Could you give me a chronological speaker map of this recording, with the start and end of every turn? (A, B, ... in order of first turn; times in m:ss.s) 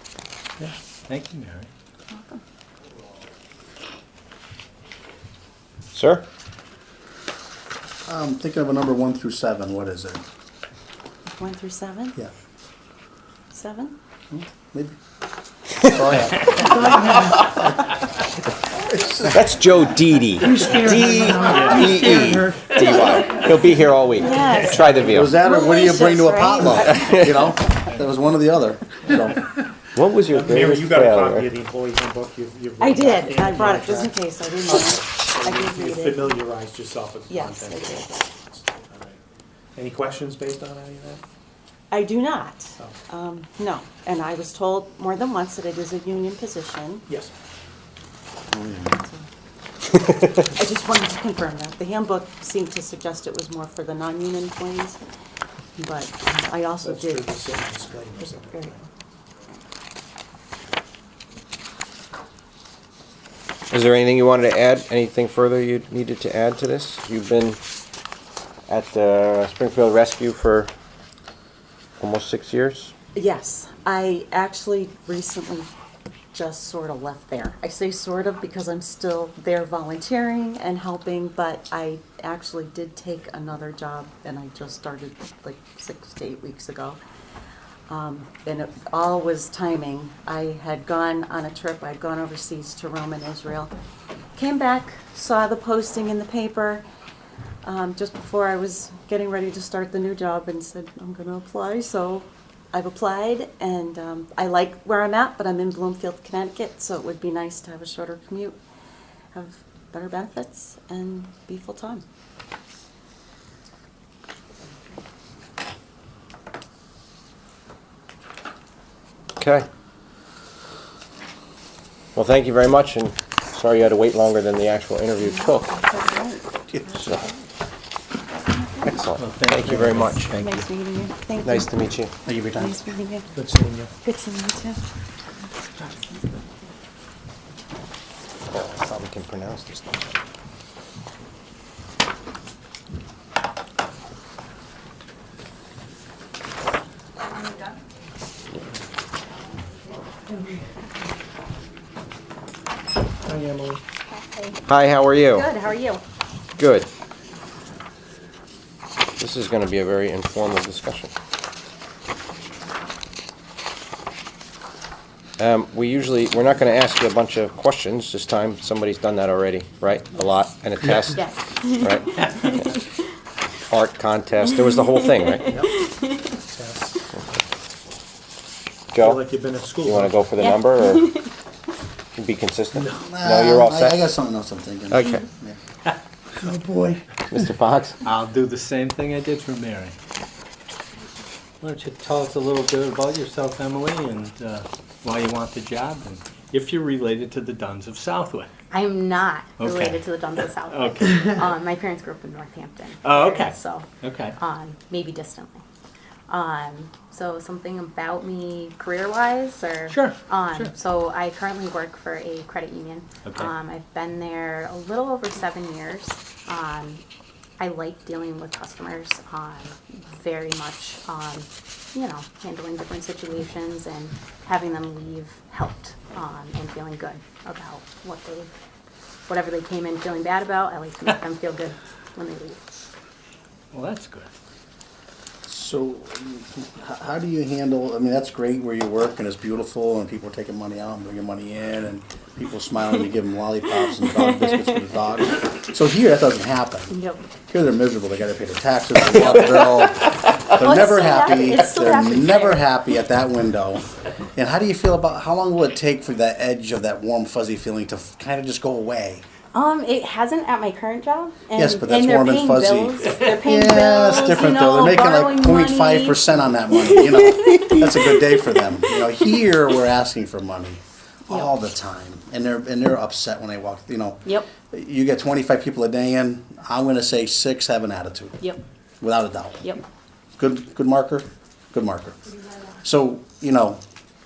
0:00.6-0:01.7 A
0:02.1-0:02.4 B
0:05.9-0:06.2 C
0:08.1-0:10.2 D
0:11.3-0:12.2 B
0:13.5-0:14.0 B
0:14.3-0:15.0 D
0:15.8-0:17.6 D
0:17.0-0:17.3 C
0:18.8-0:19.4 D
0:19.3-0:25.3 C
0:20.5-0:22.5 E
0:21.5-0:22.0 A
0:22.7-0:23.5 B
0:24.2-0:27.2 B
0:25.1-0:29.4 D
0:26.8-0:27.4 C
0:29.9-0:31.4 C
0:30.3-0:39.2 E
0:32.8-0:36.4 B
0:37.3-0:38.2 B
0:39.8-0:41.2 E
0:41.9-0:47.0 B
0:48.7-0:49.3 B
0:50.3-0:55.0 B
0:55.8-0:57.3 B
0:56.8-0:58.8 E
0:58.2-0:58.8 B
1:03.7-1:07.6 C
1:08.7-1:10.7 C
1:12.0-1:12.9 C
1:13.1-1:15.7 B
1:16.3-1:27.0 B
1:27.9-1:33.7 B
1:34.3-1:36.8 B
1:37.6-1:48.6 B
1:49.3-1:52.0 B
1:59.4-1:59.6 C
2:02.1-2:05.7 C
2:05.2-2:07.4 B
2:06.7-2:07.2 D
2:08.3-2:08.9 B
2:08.8-2:10.2 C
2:09.2-2:10.7 A
2:10.3-2:11.8 B
2:11.4-2:12.1 C
2:12.2-2:12.8 D
2:12.6-2:13.3 B
2:13.3-2:13.9 E
2:14.0-2:14.8 B
2:15.8-2:16.4 B
2:18.5-2:20.1 C
2:33.2-2:33.8 E
2:34.1-2:34.6 F
2:34.7-2:35.5 C
2:35.3-2:36.0 F
2:36.6-2:36.9 C
2:39.2-2:41.1 C
2:45.4-2:51.2 C
2:51.1-2:53.0 F
2:51.8-2:52.6 C
2:52.1-2:52.5 A
2:53.7-2:55.5 C
2:54.9-2:56.3 F
2:55.4-2:57.0 E
2:58.9-2:59.2 C
2:59.0-3:00.4 E
2:59.8-3:01.1 C
3:00.4-3:01.3 F
3:02.1-3:04.1 C
3:02.7-3:03.1 E
3:03.0-3:05.6 D
3:04.9-3:05.2 C
3:06.4-3:06.9 E
3:07.3-3:08.0 C
3:08.0-3:10.0 A
3:11.6-3:18.5 A
3:18.7-3:25.6 F
3:19.6-3:20.0 A
3:20.6-3:21.4 A
3:23.0-3:24.4 A
3:26.3-3:37.0 F
3:29.9-3:30.7 A
3:33.2-3:33.5 A
3:37.6-3:48.5 F
3:49.3-3:52.6 F
3:53.7-3:54.3 A
3:55.4-4:07.0 D
4:03.7-4:05.1 F
4:06.9-4:07.2 F
4:07.5-4:13.8 D
4:09.3-4:09.6 F
4:10.5-4:12.7 F
4:14.4-4:19.2 D
4:19.5-4:29.0 F
4:21.5-4:38.4 D
4:39.0-4:39.8 D
4:40.4-4:42.2 D
4:42.8-4:43.8 D